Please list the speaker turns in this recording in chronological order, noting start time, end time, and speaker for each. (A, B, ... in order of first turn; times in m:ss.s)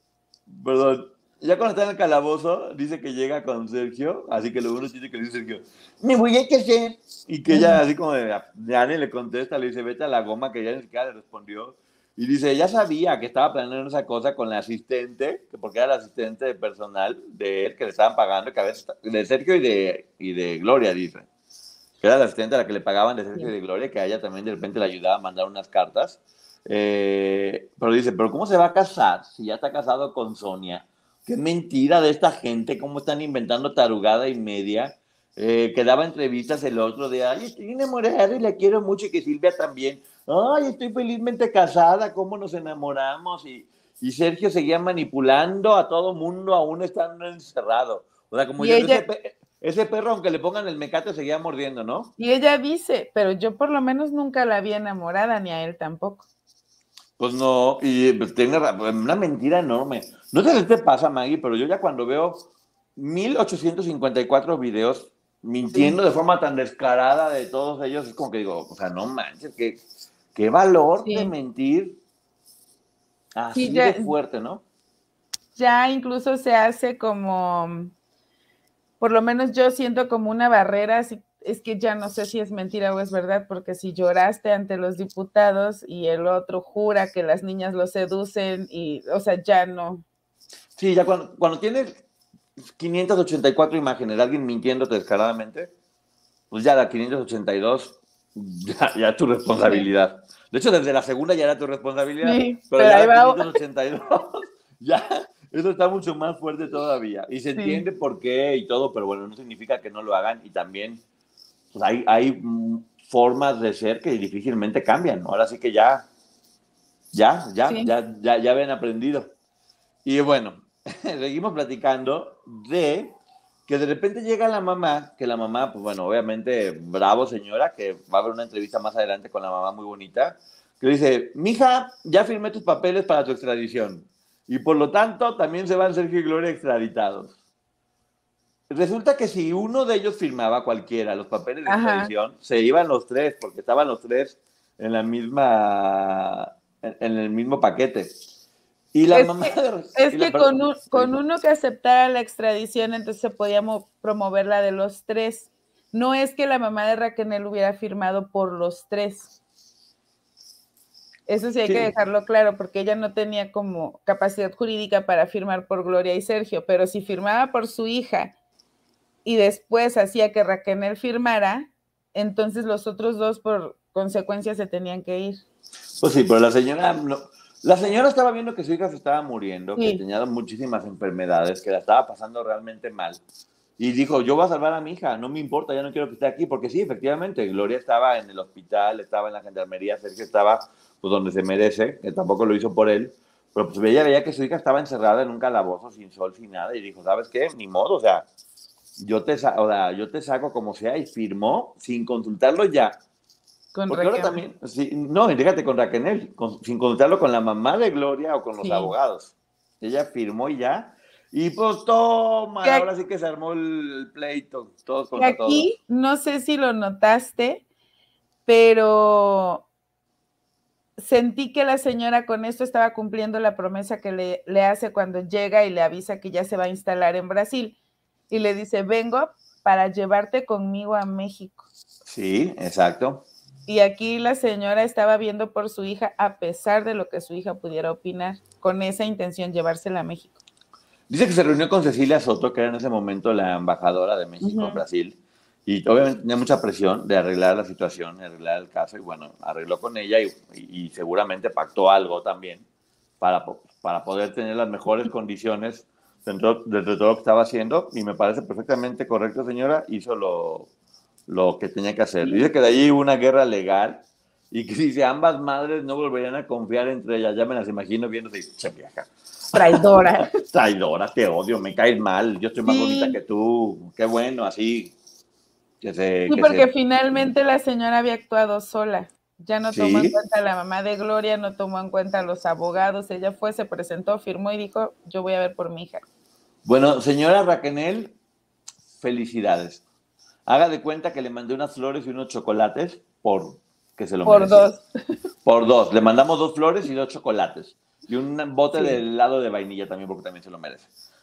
0:00.5-0:21.3 A
0:07.5-0:07.8 B
0:22.0-0:52.1 A
0:48.6-0:49.0 B
0:52.2-0:56.3 B
0:57.2-1:09.8 A
1:05.7-1:06.0 B
1:10.4-1:12.0 A
1:11.1-1:11.3 B
1:13.4-1:14.6 A
1:13.5-1:14.1 B
1:15.6-1:17.9 B
1:19.0-1:30.0 B
1:30.8-1:32.0 A
1:32.8-1:35.7 A
1:36.5-1:51.0 A
1:42.2-1:43.6 B
1:47.6-1:47.8 B
1:51.7-1:56.1 A
1:57.1-1:59.3 A
1:57.6-1:57.9 B
2:00.0-2:03.2 A
2:03.7-2:17.4 A
2:18.7-2:28.2 A
2:21.7-2:22.1 B
2:28.9-2:31.1 A
2:29.1-2:39.3 B
2:41.3-2:48.3 B
2:41.6-2:41.9 A
2:49.2-2:55.4 B
2:56.0-3:03.2 A
2:59.8-3:00.0 B
3:03.8-3:18.3 A
3:19.0-3:23.0 A
3:23.8-3:24.4 B
3:23.9-3:35.7 A
3:28.6-3:28.9 B
3:35.2-3:37.6 B
3:38.5-3:39.7 B
3:41.0-3:47.8 B
3:48.3-3:51.6 B
3:52.1-3:53.2 A
3:53.7-4:00.4 B
4:01.1-4:12.6 A
4:04.4-4:04.8 B
4:13.2-4:20.7 A
4:21.3-4:34.9 A
4:22.2-4:22.5 B
4:29.5-4:30.3 B
4:32.6-4:33.2 B
4:35.8-4:36.7 A
4:36.3-4:46.0 B
4:39.7-4:40.2 A
4:46.6-4:48.2 A
4:49.0-4:49.8 A
4:50.5-4:54.7 A
4:54.2-4:54.8 B
4:55.4-5:00.9 A
4:58.8-4:59.0 B